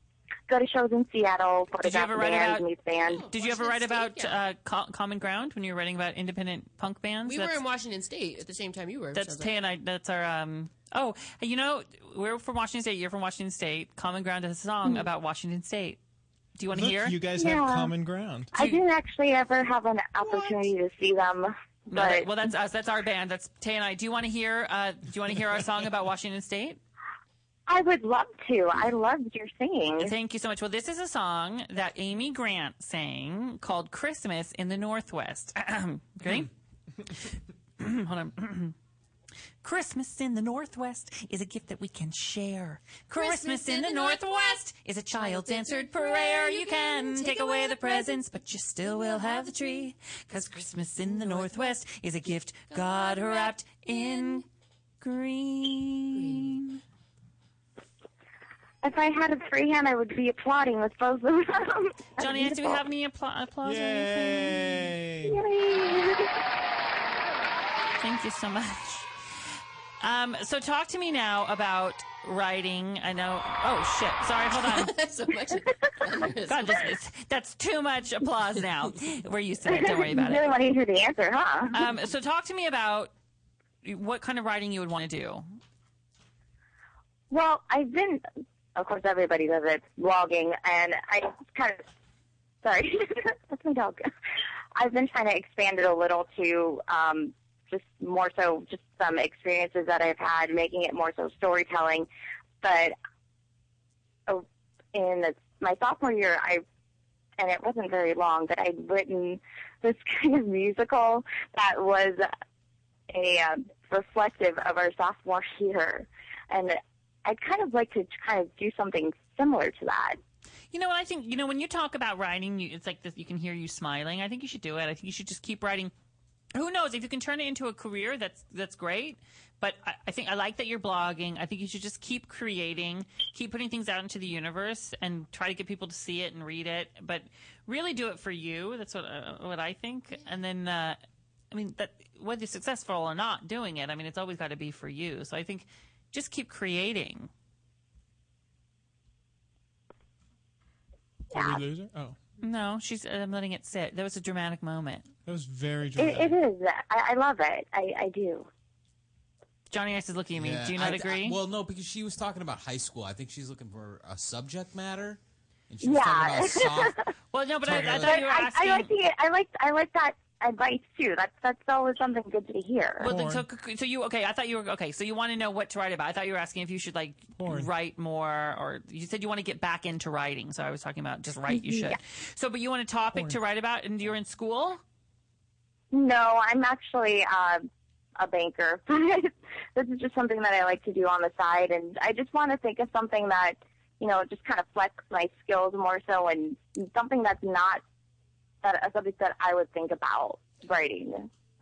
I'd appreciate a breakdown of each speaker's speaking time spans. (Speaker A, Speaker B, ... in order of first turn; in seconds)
Speaker A: 0.5-3.2, 17.4-17.9, 18.5-22.2, 27.7-30.1, 58.8-62.8, 65.3-66.3, 79.7-81.8, 87.3-88.2, 88.8-91.8, 92.6-94.1, 94.7-102.1, 102.6-103.0, 104.3-106.6, 107.4-112.3, 113.1-120.2, 151.3-151.6, 156.0-158.5, 165.8-166.9, 167.8-173.1, 181.5-182.0, 185.9-187.7, 188.2-197.8, 198.6-201.3
Speaker B: 1.8-2.6, 3.3-7.6, 9.1-16.0, 16.6-17.2, 21.9-26.8, 30.0-36.5, 37.8-38.7, 39.6-54.4, 55.0-56.8, 62.2-64.8, 68.0-69.1, 70.0-74.9, 76.5-80.5, 81.7-83.1, 83.8-85.5, 120.7-125.9, 126.5-141.0, 141.5-147.3, 152.4-155.1, 159.7-161.4, 167.3-168.9, 173.0-184.8
Speaker C: 3.1-4.4, 7.2-9.5, 43.1-44.6, 45.1-48.2, 48.8-49.9, 51.0-51.8, 52.7-54.4, 56.1-56.6, 74.5-76.9
Speaker D: 16.7-18.5, 63.6-65.4, 151.3-152.2, 155.2-156.4, 173.0-173.4, 177.4-177.7
Speaker E: 160.3-167.0, 167.6-168.2